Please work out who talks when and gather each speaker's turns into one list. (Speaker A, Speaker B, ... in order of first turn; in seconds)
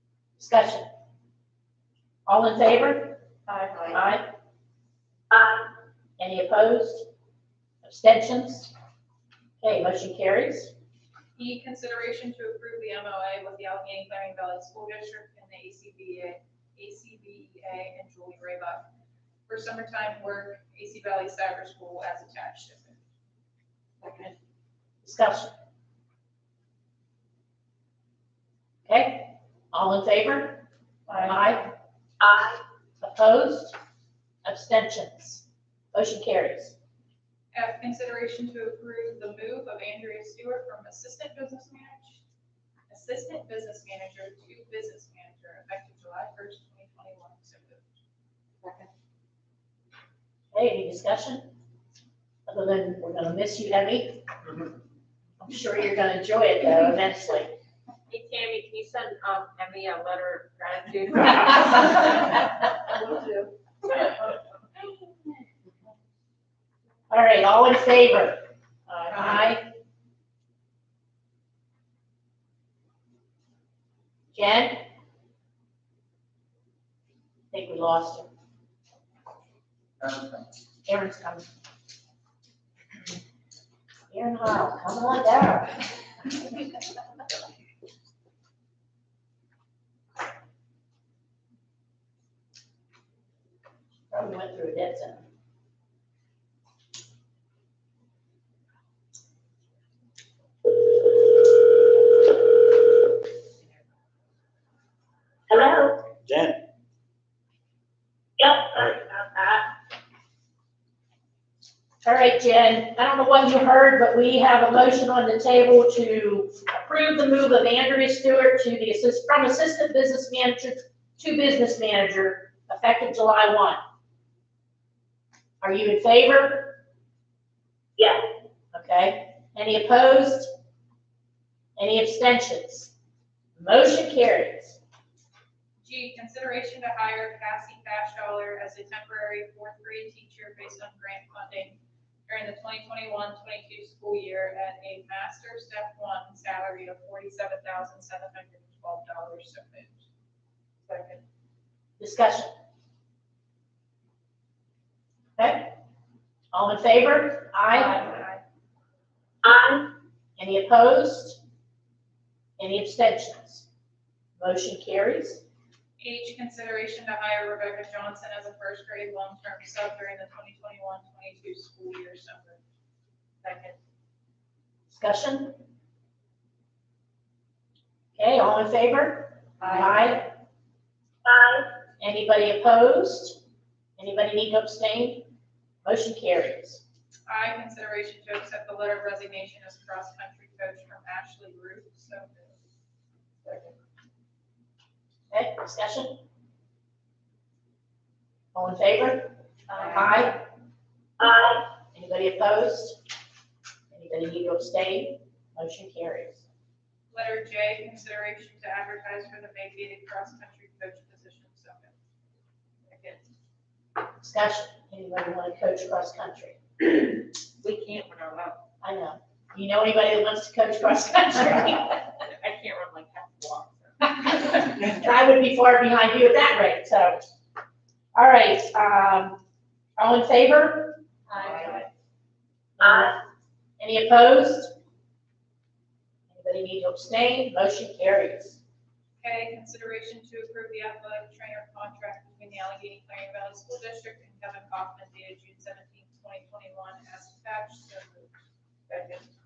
Speaker A: 0.4-0.9, 2.3-3.2, 3.9-4.2, 6.2-7.1, 7.8-8.7, 9.6-10.7, 25.0-25.5, 28.9-31.6, 33.0-33.8, 34.4-36.8, 50.5-51.5, 52.5-54.2, 55.4-57.5, 67.1-69.7, 74.3-74.8, 77.5-78.3, 80.8-81.5, 84.1-86.3, 94.1-95.2, 112.0-123.8, 125.6-126.8, 128.7-130.5, 131.8-132.9, 133.6-134.8, 152.0-152.5, 155.4-155.8, 156.5-158.2, 160.4-161.4, 162.6-163.7, 164.4-165.4, 174.9-175.6, 178.2-180.3, 182.0-183.4, 184.0-185.3, 185.8-186.8, 195.3-196.2, 198.5-199.3, 199.8-200.4, 201.9-203.0, 203.9-206.4, 214.2-216.6, 218.8-222.1, 224.2-227.2, 228.1-229.4, 230.0-231.0, 232.8-233.2, 233.8-234.7, 236.3-238.6
Speaker B: 3.5-4.0, 24.0-24.3, 48.6-48.9, 58.1-62.6, 193.4-193.7, 199.7-200.0, 212.9-213.2, 217.6-218.6, 222.3-224.2, 231.3-231.8
Speaker C: 5.3-5.7, 32.2-32.6, 105.5-106.0, 108.4-109.7, 128.0-128.2, 159.4-159.9, 181.2-181.7, 201.2-201.6, 232.8-233.2
Speaker D: 11.4-18.9, 19.5-23.0, 37.5-42.2, 42.9-47.9, 62.9-63.5, 135.8-150.1, 150.9-151.2, 157.7-158.4, 166.0-172.6, 173.4-173.8, 187.3-192.6, 207.1-211.9, 239.2-248.3, 248.9-249.2